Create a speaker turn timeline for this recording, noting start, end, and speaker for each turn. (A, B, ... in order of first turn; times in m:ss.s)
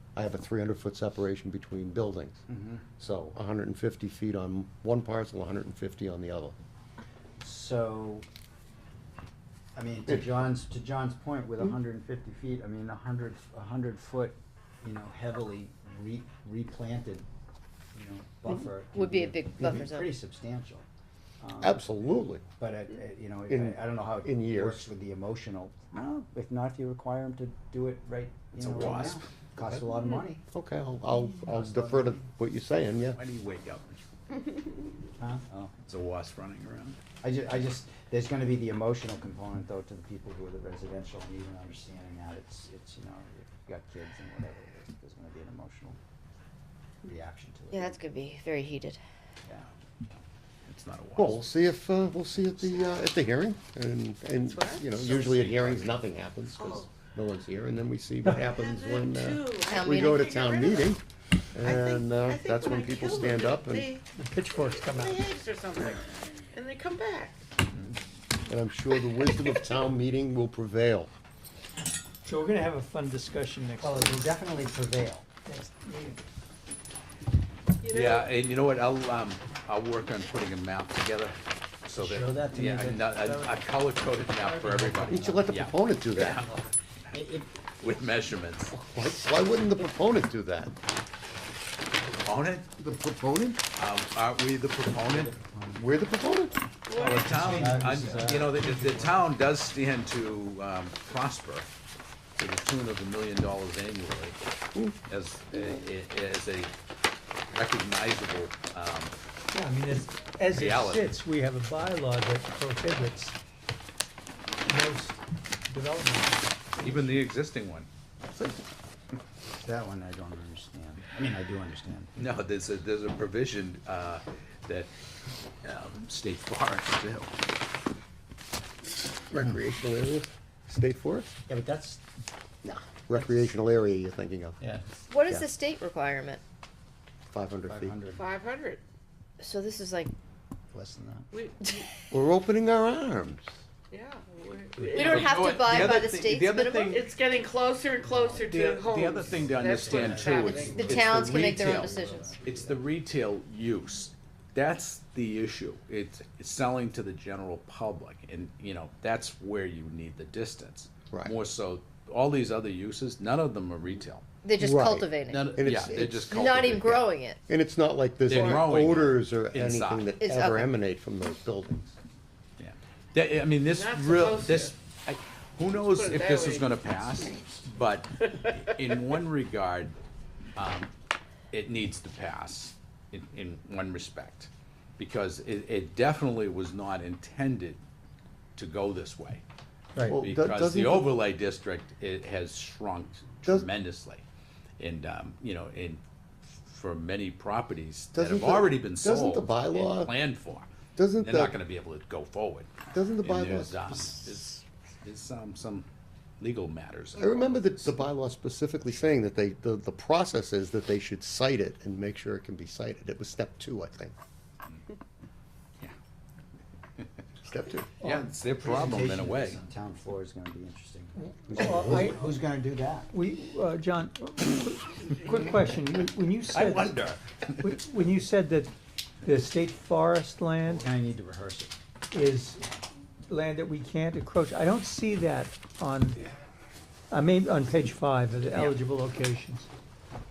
0:00.1-0:02.4 A
0:02.5-0:02.8 B
0:03.0-0:06.5 A
0:07.4-0:08.2 B
0:09.8-0:17.3 B
0:17.9-0:20.8 B
0:18.9-0:20.1 C
0:21.4-0:21.9 B
0:21.6-0:22.4 A
0:22.6-0:30.4 B
0:23.5-0:24.8 A
0:28.6-0:29.8 D
0:30.5-0:33.2 A
0:31.4-0:32.3 B
0:33.1-0:34.0 D
0:35.2-0:35.7 B
0:35.8-0:37.0 D
0:37.2-0:46.0 B
0:47.0-0:48.0 B
0:47.7-0:49.0 C
0:49.4-0:49.7 B
0:50.7-0:51.4 D
0:51.2-1:01.0 A
0:54.4-0:55.0 E
0:55.0-0:55.9 D
0:56.6-0:57.0 E
0:58.4-1:01.0 E
0:59.7-1:00.2 C
1:01.5-1:03.9 A
1:01.6-1:07.4 E
1:04.2-1:05.3 F
1:08.4-1:11.1 A
1:08.9-1:09.7 E
1:12.2-1:14.3 F
1:13.8-1:15.2 B
1:15.4-1:16.2 F
1:17.8-1:18.4 E
1:17.9-1:26.5 D
1:22.0-1:23.6 B
1:24.3-1:25.6 B
1:25.1-1:26.4 A
1:26.1-1:27.5 B
1:27.8-1:28.8 D
1:28.7-1:30.7 A
1:32.2-1:32.7 D
1:32.8-1:33.6 A
1:33.8-1:35.3 D
1:35.0-1:35.9 B
1:35.8-1:36.6 A
1:36.8-1:37.6 E
1:37.0-1:41.7 D
1:37.2-1:39.3 B
1:42.4-1:44.4 D
1:45.1-1:46.7 D
1:47.5-1:49.1 D
1:49.5-1:53.4 F
1:50.5-1:51.1 D
1:54.6-1:57.2 F
1:56.8-1:57.9 D
1:59.6-2:02.1 B
2:02.2-2:04.9 D
2:05.6-2:07.3 D
2:09.3-2:11.3 A
2:11.5-2:12.0 B
2:12.6-2:13.5 B
2:13.1-2:14.6 A
2:14.6-2:14.8 B
2:15.1-2:16.4 C
2:17.3-2:18.0 A
2:17.7-2:18.2 B
2:18.1-2:18.8 E
2:19.4-2:20.1 C
2:20.7-2:21.3 B
2:21.3-2:21.8 E
2:22.1-2:23.5 A
2:23.9-2:30.7 E
2:24.9-2:27.1 D
2:24.9-2:26.9 C
2:28.1-2:28.5 B
2:28.5-2:44.2 D
2:29.1-2:32.9 B
2:30.6-2:32.4 C
2:41.1-2:41.4 A
2:44.4-2:45.5 C
2:44.6-2:46.6 A
2:45.3-2:47.1 D
2:46.3-2:47.4 C
2:47.5-2:51.9 A
2:48.3-2:50.2 D
2:48.4-2:48.8 E
2:50.2-2:50.7 C
2:52.6-3:00.0 D
2:53.6-2:54.8 E
2:55.7-2:56.9 E
3:00.6-3:00.9 D
3:01.5-3:07.8 D
3:08.6-3:09.4 D
3:09.9-3:10.2 F
3:10.0-3:11.2 A
3:10.2-3:14.2 D
3:14.8-3:25.9 D
3:18.1-3:20.1 A
3:21.0-3:21.6 A
3:22.9-3:24.2 A
3:26.4-3:28.0 D
3:27.1-3:34.1 A
3:37.4-3:37.9 A
3:38.0-3:38.3 F
3:38.0-3:39.6 D
3:38.6-3:43.1 B
3:41.2-3:42.4 F
3:41.5-3:42.1 A
3:43.1-3:50.9 F
3:46.5-3:47.2 D
3:50.7-3:51.7 B
3:52.1-3:52.6 F
3:53.3-3:56.2 F
3:57.1-3:59.7 F